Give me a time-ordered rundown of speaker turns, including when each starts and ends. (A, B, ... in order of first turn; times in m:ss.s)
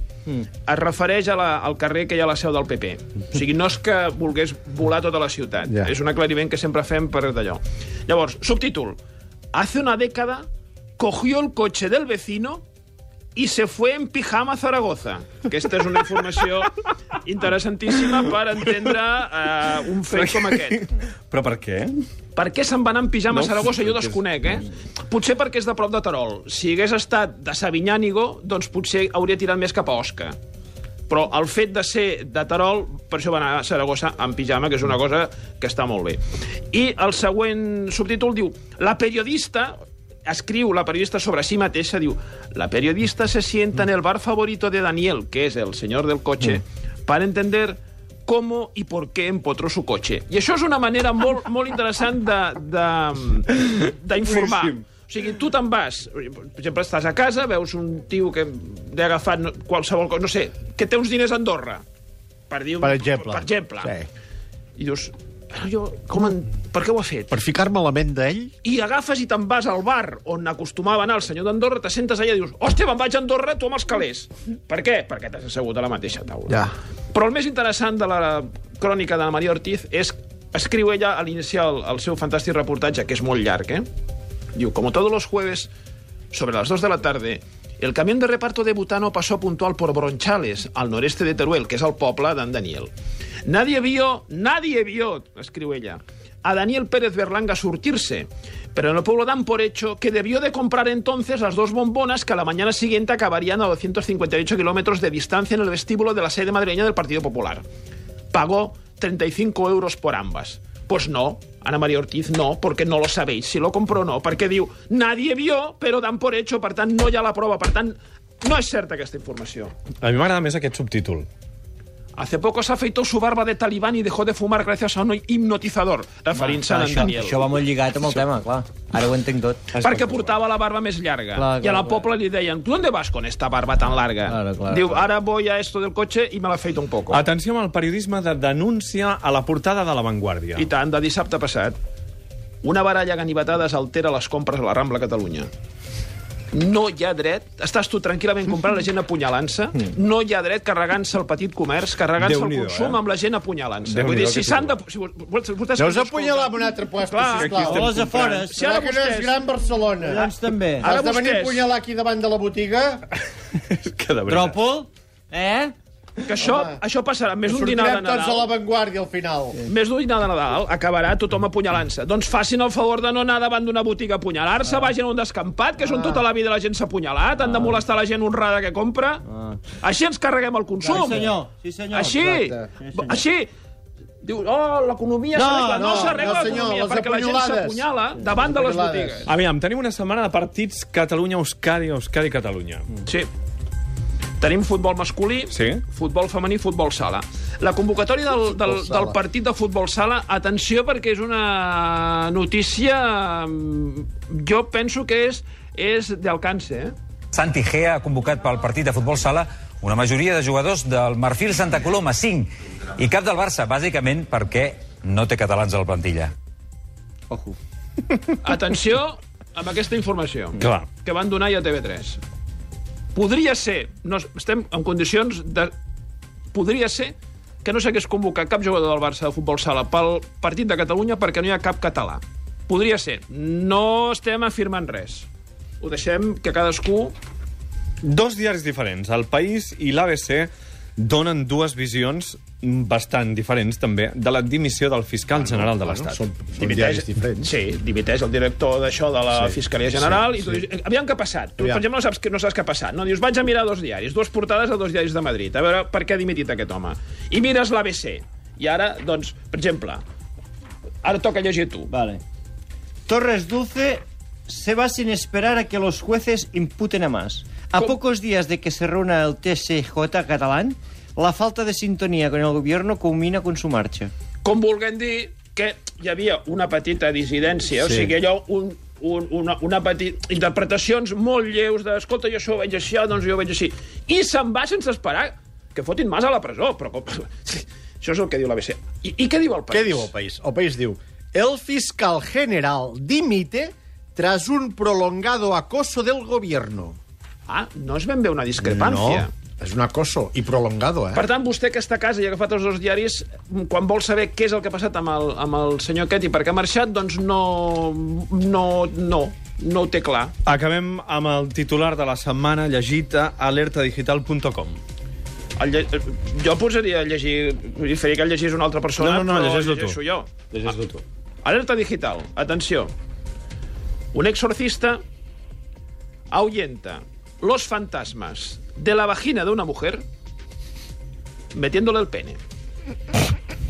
0:00.7-0:09.0 A
0:09.5-0:10.4 A
0:11.0-0:12.6 A
0:13.4-0:16.7 A
0:17.2-0:20.8 A
0:20.1-0:22.0 B
0:22.4-0:30.4 A
0:23.3-0:24.2 B
0:31.1-0:36.2 A
0:36.7-0:39.7 A
0:40.2-1:01.8 A
1:02.5-1:03.9 A
1:02.8-1:04.1 C
1:04.8-1:07.4 A
1:07.3-1:08.5 C
1:08.6-1:23.8 A
1:16.5-1:16.7 C
1:24.5-1:25.7 A
1:26.3-1:32.9 A
1:33.4-1:47.6 A
1:48.3-1:59.7 A
2:00.0-2:01.3 B
2:02.2-2:07.6 A
2:06.3-2:09.9 D
2:09.8-2:17.2 A
2:09.9-2:10.2 B
2:11.3-2:12.0 D
2:14.2-2:15.1 D
2:17.1-2:20.7 B
2:20.5-2:21.8 A
2:22.6-2:25.5 A
2:26.5-2:39.4 A
2:32.2-2:33.0 B
2:33.8-2:34.8 B
2:35.8-2:43.0 C
2:37.3-2:38.4 B
2:37.5-2:38.6 D
2:40.0-2:40.9 D
2:40.8-2:41.6 A
2:43.6-2:44.6 B
2:44.2-2:45.7 D
2:46.3-2:48.5 A
2:46.4-2:46.8 C
2:47.5-2:49.6 C
2:49.6-3:03.5 A
2:55.8-2:56.2 C
2:57.4-2:57.8 D
2:59.3-2:59.6 D
3:00.8-3:03.2 D
3:04.2-3:09.3 A
3:05.3-3:06.6 D
3:05.7-3:09.2 C
3:09.3-3:12.9 B
3:14.4-3:26.9 A
3:15.5-3:15.8 B
3:18.6-3:19.2 C
3:27.3-3:36.3 E
3:37.3-3:37.6 D
3:38.4-3:42.2 A
3:40.6-3:40.9 B
3:43.1-3:45.7 A
3:46.5-3:55.3 A
3:55.8-3:57.1 A
3:58.0-4:06.2 B
4:05.3-4:07.5 C
4:06.6-4:20.0 A
4:09.3-4:10.6 C
4:21.0-4:21.9 A
4:21.9-4:22.2 D
4:23.1-4:34.1 D
4:34.4-4:50.1 A
4:49.7-4:57.0 C
4:57.5-4:59.3 A
4:58.6-5:01.2 C
5:01.1-5:10.3 A
5:10.4-5:14.8 B
5:15.6-5:20.3 A
5:19.0-5:20.0 B
5:20.5-5:21.0 B
5:21.4-5:22.9 A
5:24.1-5:25.0 A
5:26.3-5:30.0 A
5:31.5-5:32.4 A